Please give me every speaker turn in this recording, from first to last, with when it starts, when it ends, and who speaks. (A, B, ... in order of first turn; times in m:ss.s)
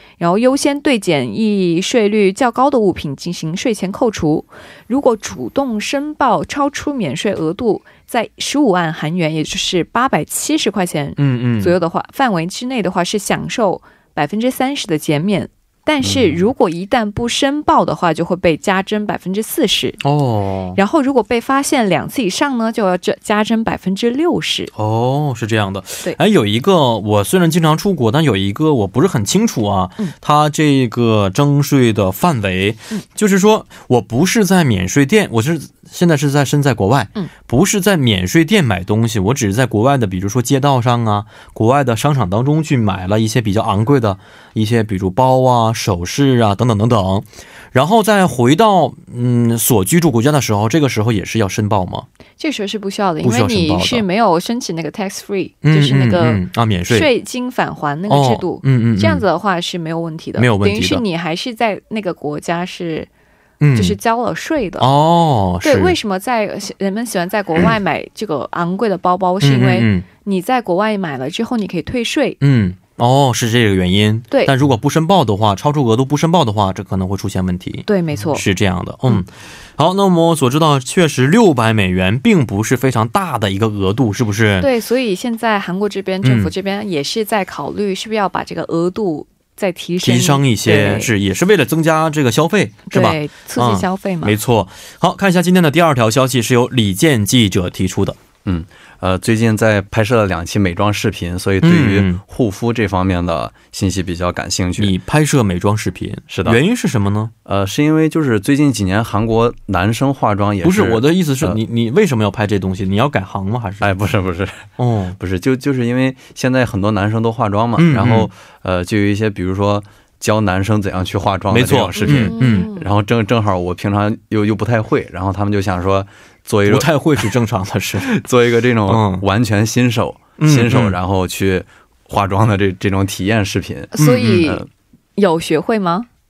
0:00.2-0:20.0 A
0:11.2-0:11.8 B
0:16.0-0:16.4 C
0:20.0-0:20.8 B
0:20.8-0:24.7 A
0:24.7-0:52.1 B
0:52.4-1:03.1 A
0:53.2-0:54.0 B
0:55.6-0:57.1 B
0:58.1-0:59.2 B
1:00.4-1:01.0 B
1:03.6-1:04.0 B
1:03.7-1:04.9 A
1:04.8-1:06.0 B
1:05.6-1:12.4 A
1:09.4-1:10.1 B
1:12.4-1:24.7 B
1:17.9-1:18.4 A
1:24.6-1:31.1 A
1:26.2-1:26.5 B
1:30.0-1:38.2 B
1:32.9-1:34.4 A
1:38.4-1:44.9 C
1:41.6-1:42.2 B
1:44.8-1:47.3 B
1:46.3-1:46.6 C
1:47.5-1:51.6 C
1:50.6-1:53.9 B
1:53.8-2:07.3 C
1:54.8-1:55.2 B
1:57.8-1:58.3 B
2:01.5-2:02.7 B
2:02.0-2:02.9 A
2:06.7-2:08.2 B
2:08.0-2:14.7 C
2:08.9-2:09.2 B
2:10.4-2:11.0 B
2:13.9-2:14.6 A
2:14.0-2:14.5 B
2:15.2-2:16.1 A